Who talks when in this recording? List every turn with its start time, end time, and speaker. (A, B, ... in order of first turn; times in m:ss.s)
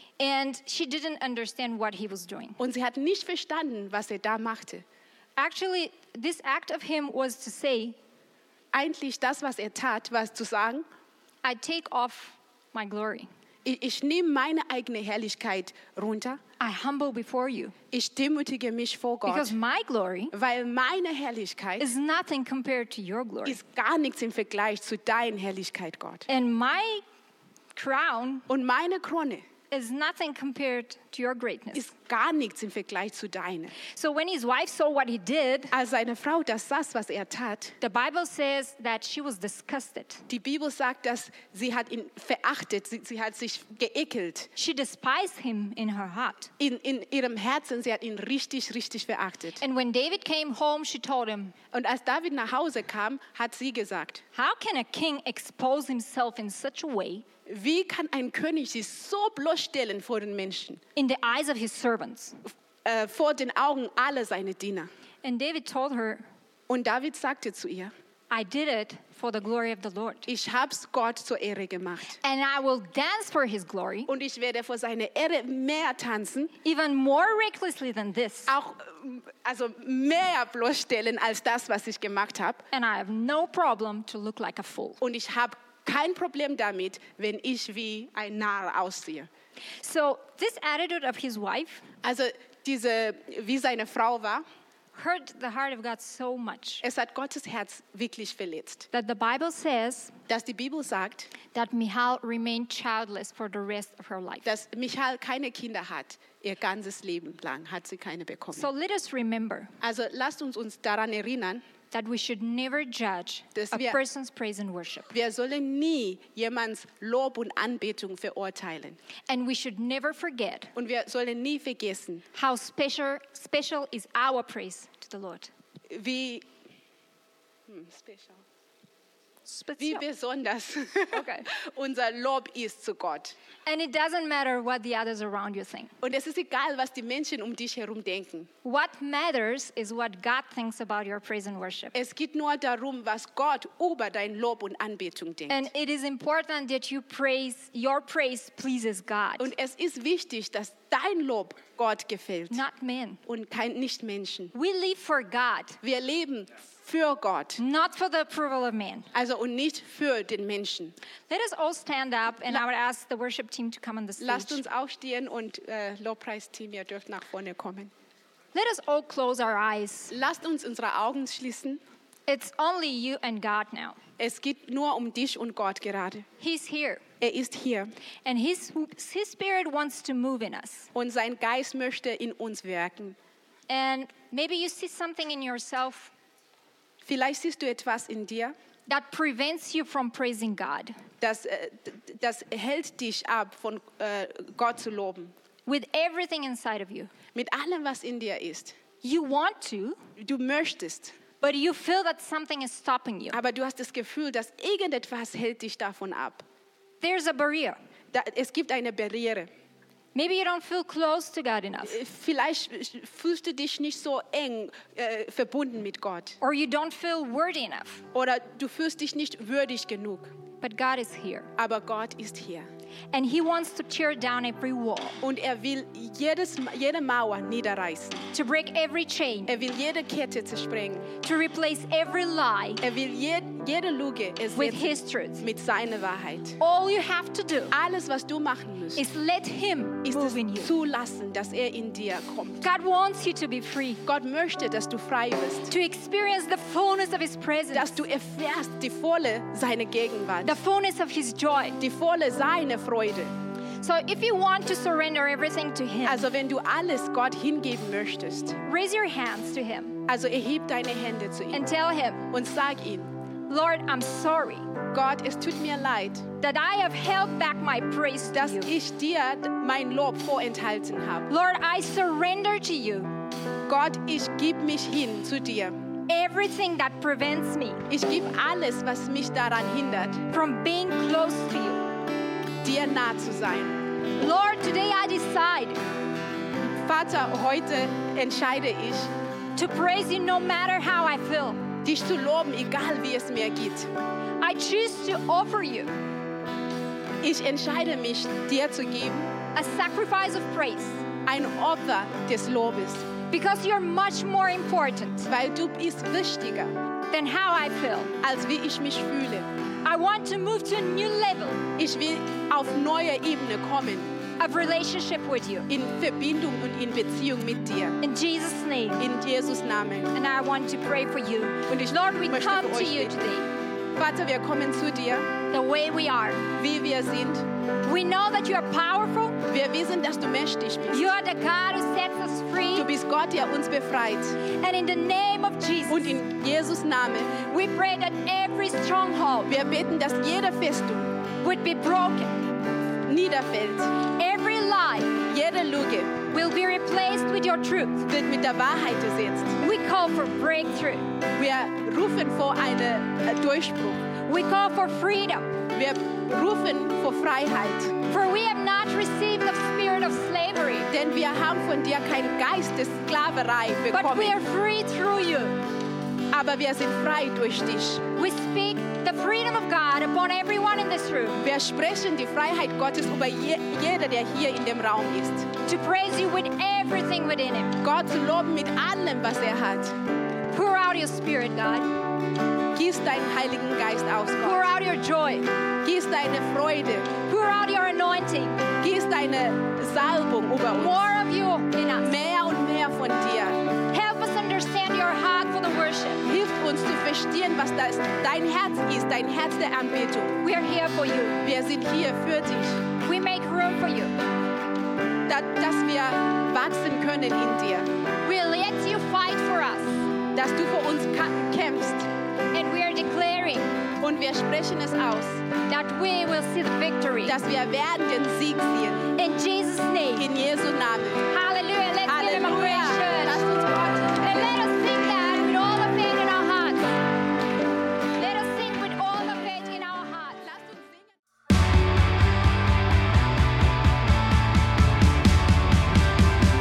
0:00.2-0:02.6 A
0:02.6-0:04.8 B
0:05.4-0:08.0 A
0:08.7-0:10.8 B
0:11.4-0:13.3 A
0:13.6-0:16.4 B
0:16.6-0:17.8 A
0:17.9-0:19.6 B
0:19.3-0:20.3 A
0:20.3-0:21.9 B
0:21.8-0:23.6 A
0:23.4-0:26.3 B
0:26.3-0:27.0 A
0:27.8-0:28.5 A
0:28.5-0:29.4 B
0:29.7-0:31.9 A
0:31.7-0:33.7 B
0:33.8-0:35.7 A
0:35.7-0:37.8 B
0:37.8-0:40.3 A
0:40.3-0:44.5 B
0:44.6-0:46.5 A
0:46.6-0:49.6 B
0:49.6-0:51.6 A
0:51.7-0:54.2 B
0:54.4-0:57.3 A
0:57.5-1:00.8 B
1:01.0-1:02.4 A
1:02.8-1:04.9 B
1:05.2-1:06.3 A
1:06.7-1:07.9 B
1:08.3-1:10.3 A
1:10.3-1:12.2 B
1:12.2-1:14.1 A
1:14.1-1:16.5 B
1:16.6-1:18.5 A
1:18.5-1:22.6 B
1:22.7-1:25.0 A
1:25.0-1:29.3 B
1:29.8-1:31.9 A
1:32.0-1:34.4 B
1:35.0-1:36.8 A
1:36.8-1:38.9 B
1:38.9-1:40.1 A
1:40.3-1:41.3 B
1:41.5-1:44.5 A
1:44.4-1:48.7 B
1:48.5-1:49.7 A
1:49.8-1:51.6 B
1:51.9-1:55.1 A
1:53.6-1:54.0 B
1:55.1-1:59.0 B
1:59.3-2:00.7 A
2:00.8-2:02.2 B
2:02.3-2:05.5 A
2:05.9-2:06.5 B
2:07.7-2:08.4 B
2:09.5-2:10.0 A
2:09.8-2:13.4 B
2:11.1-2:11.5 A
2:13.7-2:15.9 A
2:16.0-2:18.5 B
2:18.6-2:22.0 A
2:21.9-2:25.7 B
2:25.5-2:29.5 A
2:29.4-2:32.6 B
2:32.5-2:33.2 A
2:33.3-2:34.5 B
2:34.5-2:35.8 A
2:35.8-2:37.6 B
2:37.6-2:39.1 A
2:39.1-2:41.0 B
2:41.3-2:44.6 A
2:44.2-2:47.9 B
2:48.5-2:50.1 A
2:50.1-2:51.8 B
2:52.3-2:54.0 A
2:54.2-2:56.3 B
2:56.4-2:57.0 A
2:57.2-2:57.9 B
2:58.2-3:00.9 A
3:00.9-3:03.2 B
3:03.7-3:06.1 A
3:07.0-3:08.6 B
3:08.9-3:11.0 A
3:11.2-3:15.3 B
3:15.7-3:17.1 A
3:17.3-3:18.8 B
3:19.0-3:20.0 A
3:20.2-3:21.2 B
3:21.4-3:23.4 A
3:23.3-3:26.4 B
3:27.0-3:27.8 A
3:28.1-3:29.5 B
3:30.2-3:32.0 A
3:31.8-3:36.4 B
3:36.4-3:38.0 A
3:38.1-3:40.3 B
3:40.6-3:41.5 A
3:41.6-3:42.7 B
3:43.1-3:45.2 A
3:45.2-3:48.2 B
3:48.3-3:49.5 A
3:49.5-3:51.1 B
3:51.2-3:52.8 A
3:52.8-3:56.6 B
3:54.6-3:55.4 A
3:56.6-3:57.8 A
3:57.7-3:59.0 B
3:59.0-4:00.7 A
4:00.0-4:02.6 B
4:02.6-4:04.0 A
4:04.0-4:05.7 B
4:05.7-4:08.0 A
4:07.7-4:10.6 B
4:10.4-4:11.8 A
4:11.8-4:13.3 B
4:13.8-4:16.3 A
4:16.0-4:18.6 B
4:18.6-4:20.0 A
4:20.0-4:21.7 B
4:21.5-4:22.3 A
4:22.3-4:23.1 B
4:23.5-4:24.7 A
4:24.9-4:26.3 B
4:26.4-4:28.7 A
4:28.3-4:31.3 B
4:31.3-4:33.1 A
4:33.7-4:35.8 B
4:36.1-4:37.8 A
4:37.9-4:40.2 B
4:40.3-4:41.8 A
4:42.6-4:43.8 B
4:44.2-4:45.8 A
4:46.7-4:49.1 B
4:49.6-4:51.6 A
4:51.8-4:53.9 B
4:54.4-4:56.0 A
4:57.2-4:59.3 B
4:59.6-5:01.0 A
5:01.2-5:03.1 B
5:03.3-5:05.3 A
5:05.3-5:06.8 B
5:07.1-5:08.1 A
5:08.2-5:09.5 B
5:09.8-5:11.6 A
5:11.8-5:14.1 B
5:14.4-5:15.7 A
5:15.7-5:18.0 B
5:18.0-5:19.0 A
5:19.0-5:20.1 B
5:20.1-5:23.5 A
5:21.7-5:23.2 B
5:24.0-5:25.3 B
5:25.5-5:26.5 A
5:26.6-5:27.5 B
5:27.8-5:29.4 A
5:29.5-5:31.2 B
5:30.9-5:32.9 A
5:32.7-5:34.4 B
5:34.5-5:36.1 A
5:35.9-5:37.4 B
5:37.4-5:39.5 A
5:39.5-5:41.2 B
5:41.4-5:42.5 A
5:43.0-5:43.9 B
5:44.1-5:45.2 A
5:45.2-5:46.2 B
5:46.3-5:48.1 A
5:48.1-5:49.6 B
5:49.6-5:51.1 A
5:51.4-5:54.0 B
5:54.3-5:55.6 A
5:55.7-5:58.0 B
5:58.1-6:00.9 A
6:00.9-6:04.4 B
6:03.9-6:05.6 A
6:06.3-6:08.1 B
6:08.2-6:11.4 A
6:11.4-6:15.5 B
6:15.6-6:17.8 A
6:17.8-6:20.0 B
6:20.5-6:21.9 A
6:22.7-6:24.7 B
6:24.4-6:25.5 A
6:25.8-6:27.2 B
6:27.3-6:28.7 A
6:28.8-6:31.1 B
6:30.7-6:32.1 A
6:32.0-6:33.6 B
6:33.9-6:36.2 A
6:36.2-6:40.4 B
6:40.4-6:41.4 A
6:41.4-6:42.8 B
6:43.0-6:44.2 A
6:45.3-6:47.9 B
6:48.2-6:50.1 A
6:50.3-6:52.1 B
6:52.5-6:53.8 A
6:54.0-6:55.4 B
6:55.7-6:57.4 A
6:57.2-6:59.1 B
6:59.2-7:00.3 A
7:00.2-7:01.3 B
7:01.3-7:07.0 A
7:02.0-7:04.5 B
7:08.2-7:10.4 A
7:10.4-7:11.1 B